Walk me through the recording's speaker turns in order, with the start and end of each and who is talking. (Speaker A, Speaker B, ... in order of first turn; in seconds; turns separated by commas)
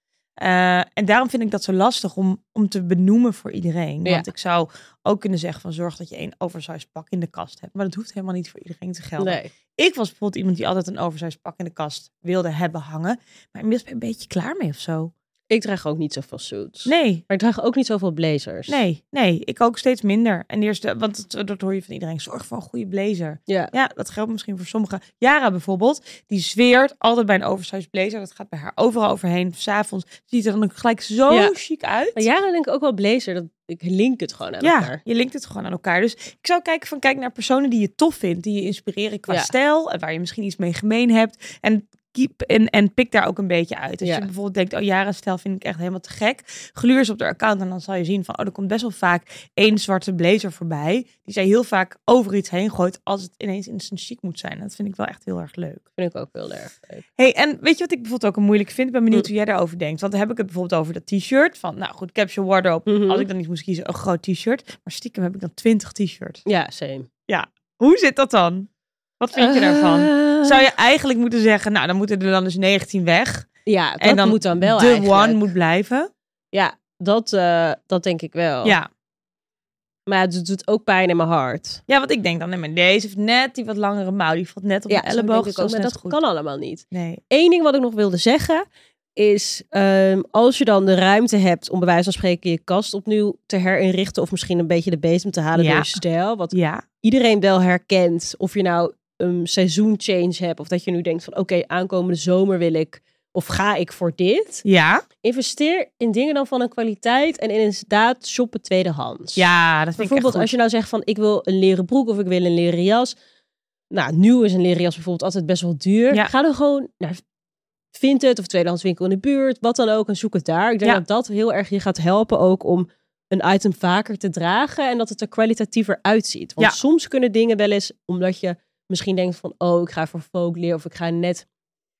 Speaker A: 0.4-15.1, Speaker B: 9.2-9.5, Speaker B: 15.5-18.8, Speaker A: 16.9-17.2, Speaker A: 18.7-32.2, Speaker B: 23.5-23.7, Speaker B: 32.1-35.0, Speaker A: 34.6-55.8, Speaker B: 44.0-44.3, Speaker B: 56.0-57.0, Speaker A: 57.2-66.4, Speaker B: 62.9-63.3, Speaker B: 66.4-67.1, Speaker A: 67.3-68.7, Speaker A: 69.2-73.5, Speaker B: 69.3-70.6, Speaker B: 73.7-75.5, Speaker A: 74.0-76.1, Speaker B: 76.5-78.8, Speaker A: 78.6-78.9, Speaker B: 80.1-81.8, Speaker A: 81.9-86.2, Speaker B: 84.9-88.6, Speaker A: 86.9-87.2, Speaker B: 89.2-104.6, Speaker A: 95.5-96.0, Speaker A: 96.5-96.8, Speaker A: 104.6-105.0, Speaker B: 105.2-109.4, Speaker A: 109.3-110.5, Speaker B: 110.0-113.2, Speaker B: 113.9-117.2, Speaker B: 117.9-131.5